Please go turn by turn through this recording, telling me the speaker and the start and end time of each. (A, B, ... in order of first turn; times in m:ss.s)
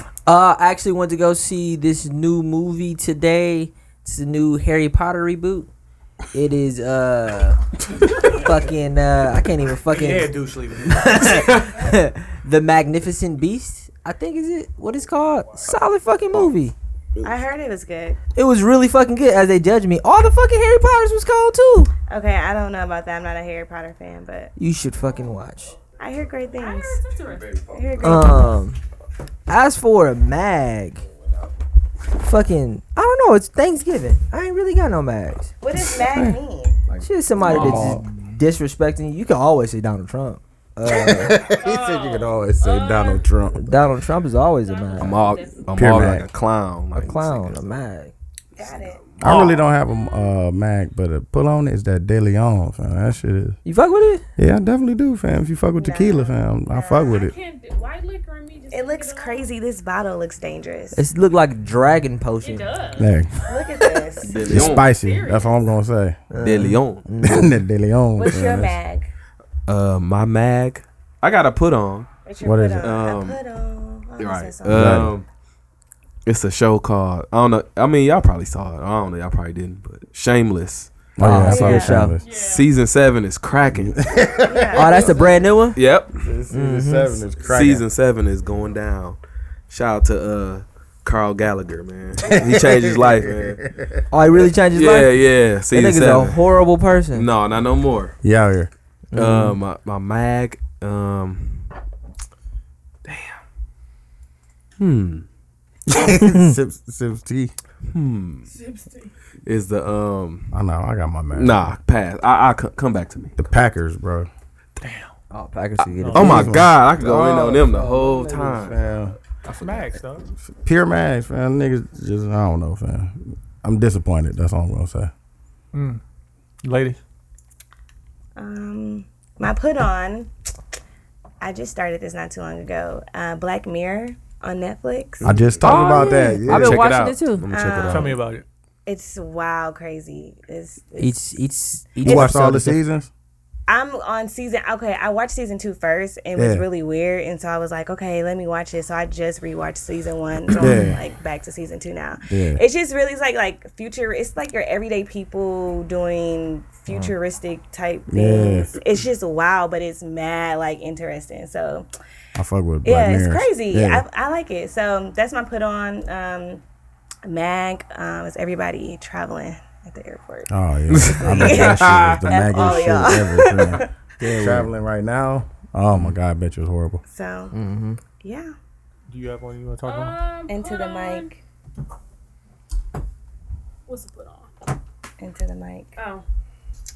0:00.2-0:05.7 A
0:06.3-0:07.6 A
0:08.2-0:10.3 A
0:09.9-0:11.6 B
0:10.9-0:16.7 A
0:17.2-0:18.2 C
0:18.4-0:21.9 A
0:22.1-0:24.5 C
0:24.6-0:25.7 A
0:26.0-0:27.0 C
0:26.5-0:27.6 D
0:27.7-0:28.6 C
0:28.0-0:28.8 A
0:29.5-0:31.0 A
0:32.2-0:35.5 A
0:35.6-0:36.8 C
0:36.1-0:36.4 E
0:37.0-0:41.4 A
0:37.4-0:38.0 E
0:40.8-0:43.8 E
0:41.3-0:43.2 D
0:43.5-0:45.3 A
0:44.6-0:46.1 D
0:45.0-0:47.8 F
0:45.8-0:46.2 E
0:46.9-0:48.1 A
0:48.6-0:49.3 C
0:48.6-0:49.4 F
0:49.2-0:53.6 E
0:49.2-0:50.2 D
0:53.6-0:54.2 A
0:54.4-0:57.3 E
0:55.8-0:57.2 C
0:56.9-0:59.5 D
0:58.7-1:01.0 C
1:00.9-1:02.8 A
1:02.4-1:03.2 D
1:03.0-1:03.8 E
1:03.4-1:04.5 C
1:04.3-1:04.9 F
1:04.4-1:06.2 E
1:04.5-1:05.6 D
1:06.3-1:07.6 A
1:06.4-1:07.0 F
1:07.2-1:08.7 E
1:08.2-1:09.1 C
1:09.6-1:12.1 F
1:12.2-1:14.8 C
1:12.4-1:13.0 E
1:12.8-1:13.4 F
1:14.2-1:15.2 F
1:14.7-1:15.1 E
1:16.2-1:20.9 F
1:21.2-1:22.2 E
1:21.2-1:22.2 A
1:21.2-1:22.1 C
1:22.2-1:22.7 D
1:22.3-1:24.0 F
1:23.7-1:25.1 E
1:24.4-1:25.2 C
1:24.7-1:25.8 A
1:25.7-1:26.2 F
1:26.1-1:27.8 E
1:26.5-1:27.2 A
1:27.4-1:29.2 F
1:29.7-1:33.6 F
1:32.4-1:34.0 E
1:34.1-1:37.3 A
1:34.7-1:36.5 F
1:37.1-1:38.2 F
1:38.2-1:38.7 E
1:39.1-1:39.6 A
1:39.1-1:41.7 F
1:43.0-1:43.4 F
1:44.8-1:45.2 F
1:45.9-1:47.5 E
1:47.9-1:48.5 F
1:48.5-1:49.1 D
1:49.4-1:50.5 F
1:50.5-1:51.8 E
1:51.3-1:53.4 F
1:53.4-1:54.3 E
1:54.8-1:55.1 B
1:55.3-1:56.5 A
1:55.8-1:58.8 F
1:56.0-1:56.4 B
1:56.2-1:59.1 E
1:59.4-2:00.0 F
1:59.5-2:00.2 B
2:00.5-2:05.1 E
2:05.7-2:06.0 B
2:06.6-2:07.0 B
2:08.4-2:10.3 C
2:11.4-2:15.3 C
2:15.2-2:18.2 F
2:15.2-2:16.9 E
2:15.7-2:17.4 A
2:16.1-2:16.4 C
2:17.5-2:18.2 C
2:17.8-2:18.4 B
2:18.8-2:21.2 C
2:21.0-2:22.8 A
2:22.0-2:22.3 C
2:22.0-2:23.1 E
2:23.7-2:41.9 C
2:26.4-2:26.6 E
2:30.6-2:31.0 E
2:30.6-2:30.9 A
2:32.3-2:32.6 E
2:36.9-2:37.1 A
2:38.1-2:38.8 E
2:42.4-2:44.0 E
2:42.8-2:46.6 C
2:47.2-2:50.5 C
2:50.5-2:57.0 E
2:50.9-2:53.0 F
2:51.1-2:53.9 C
2:54.2-2:54.7 A
2:57.1-2:57.5 C
2:57.5-2:58.0 A
2:58.2-2:58.5 C
2:59.1-3:00.2 B
2:59.8-3:01.4 D
3:00.5-3:01.4 C
3:03.9-3:04.5 D
3:05.2-3:05.9 C
3:06.0-3:06.2 D